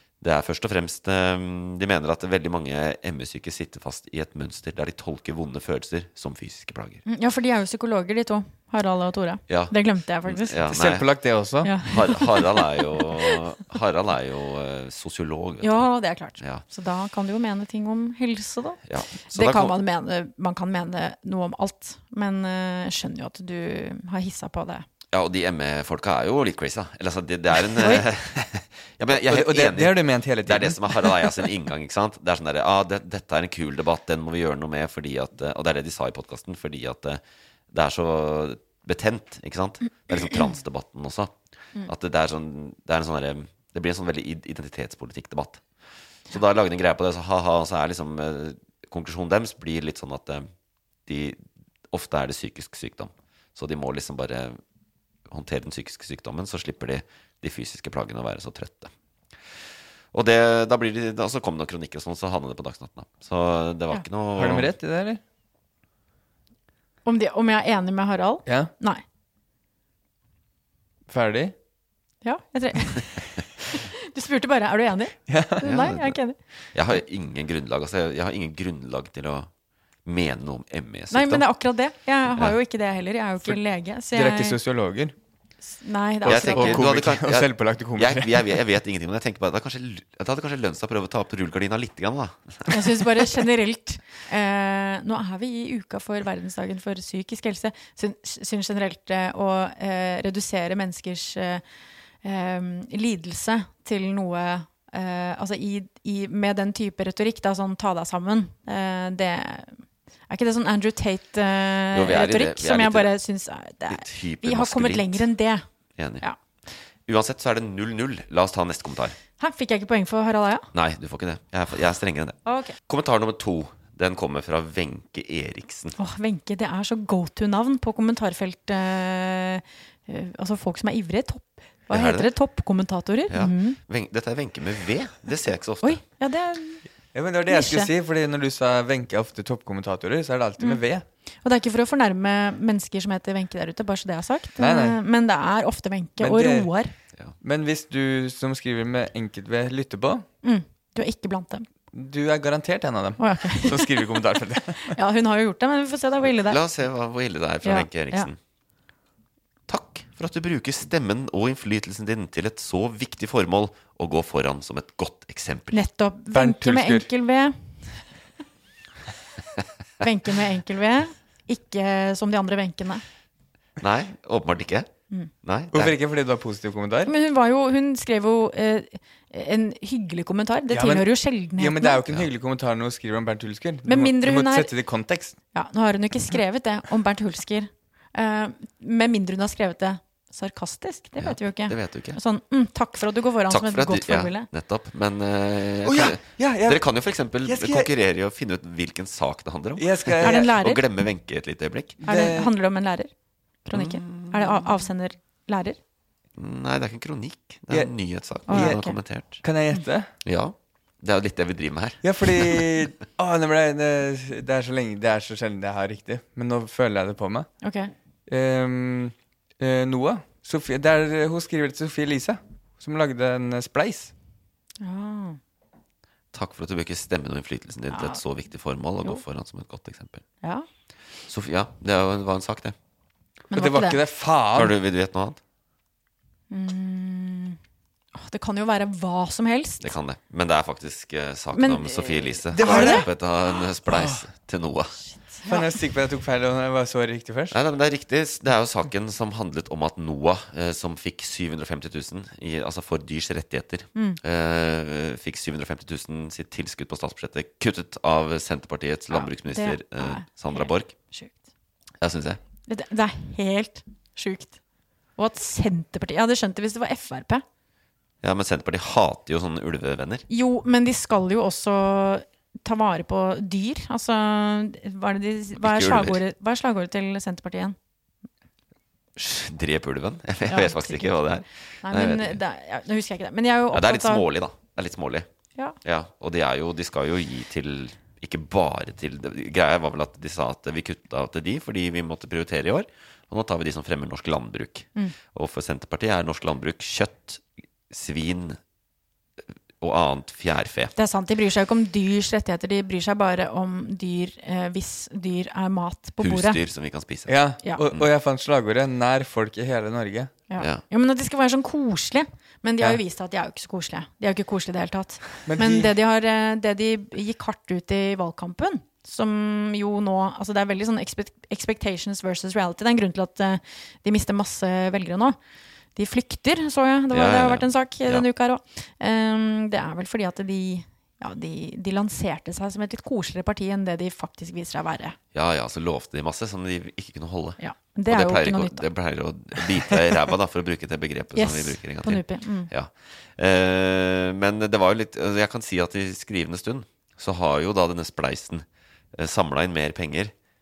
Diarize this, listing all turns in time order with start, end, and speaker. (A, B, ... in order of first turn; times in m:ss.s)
0:00.2-0:07.0 A
0:07.0-0:10.6 B
0:09.5-0:11.1 A
0:10.7-0:11.8 C
0:11.6-0:13.0 B
0:11.8-0:15.8 A
0:15.6-0:24.8 B
0:16.4-0:16.6 A
0:18.8-0:19.8 A
0:25.1-0:45.6 A
0:27.8-0:28.0 B
0:29.1-0:31.3 C
0:46.3-0:50.5 A
0:51.0-0:54.6 A
0:55.3-0:58.9 A
1:00.1-1:04.7 A
1:04.4-1:05.2 C
1:07.0-1:09.0 B
1:11.1-1:11.5 C
1:12.2-1:13.1 B
1:13.7-1:16.4 B
1:15.3-1:15.6 C
1:15.6-1:16.2 A
1:16.7-1:19.5 A
1:20.0-1:21.4 A
1:21.1-1:24.6 B
1:24.1-1:25.1 C
1:25.7-1:26.8 B
1:26.2-1:28.5 C
1:26.2-1:32.8 A
1:32.7-1:41.6 B
1:42.2-1:55.6 B
1:51.9-1:53.1 A
1:53.9-1:55.3 A
1:56.0-1:56.2 A
1:57.0-1:59.2 A
1:59.4-2:00.7 B
2:00.7-2:06.0 A
2:02.4-2:02.8 B
2:06.0-2:13.8 B
2:11.9-2:12.3 A
2:13.3-2:16.0 A
2:15.8-2:16.8 B
2:17.1-2:21.0 C
2:17.5-2:17.9 B
2:21.4-2:26.9 B
2:24.6-2:25.0 C
2:26.2-2:26.7 C
2:27.4-2:30.2 C
2:30.4-2:31.6 B
2:31.9-2:35.0 C
2:33.2-2:34.2 B
2:34.9-2:36.6 B
2:36.2-2:38.4 A
2:37.6-2:38.3 B
2:39.7-2:45.8 A
2:45.7-2:48.0 B
2:46.3-2:47.1 C
2:50.0-2:53.0 B
2:53.8-2:54.9 A
2:55.4-2:56.0 A
2:55.7-2:57.1 C
2:57.0-3:02.0 B
3:00.7-3:05.4 C
3:03.9-3:04.7 B
3:05.5-3:14.5 B
3:11.2-3:12.2 A
3:13.5-3:22.0 A
3:15.8-3:16.8 C
3:17.4-3:17.9 C
3:19.8-3:20.5 C
3:20.2-3:20.8 B
3:22.0-3:22.5 C
3:22.1-3:23.1 B
3:23.6-3:25.8 B
3:23.7-3:24.6 A
3:26.4-3:29.4 A
3:28.5-3:28.8 C
3:28.5-3:29.0 B
3:29.4-3:30.1 C
3:30.2-3:32.7 A
3:32.0-3:37.5 C
3:37.6-3:37.9 B
3:38.3-3:44.1 C
3:44.8-3:45.4 B
3:46.3-3:50.2 A
3:47.9-3:48.2 B
3:51.3-3:52.8 A
3:53.5-3:54.0 B
3:53.5-3:54.8 C
3:54.5-3:55.4 A
3:56.5-3:57.6 B
3:58.1-3:59.9 B
3:59.8-4:05.0 A
4:01.5-4:03.0 B
4:02.5-4:03.1 C
4:03.8-4:04.2 C
4:05.0-4:05.7 B
4:05.5-4:07.6 C
4:07.5-4:20.9 A
4:13.9-4:14.2 B
4:19.1-4:21.4 B
4:22.0-4:22.4 A
4:22.7-4:24.6 B
4:25.2-4:27.4 B
4:28.2-4:30.3 A
4:30.3-4:37.8 B
4:35.6-4:36.2 A
4:39.2-4:42.4 A
4:40.5-4:41.2 B
4:41.8-4:44.2 B
4:43.7-4:45.3 A
4:45.8-4:58.6 A
4:59.8-5:00.9 A
5:01.0-5:06.6 B
5:06.2-5:07.3 A
5:07.3-5:10.3 C
5:10.5-5:25.4 B
5:10.6-5:10.8 A
5:15.4-5:15.9 C
5:26.0-5:35.2 B
5:27.1-5:28.2 A
5:35.3-5:50.3 A
5:37.6-5:38.8 B
5:41.4-5:42.7 B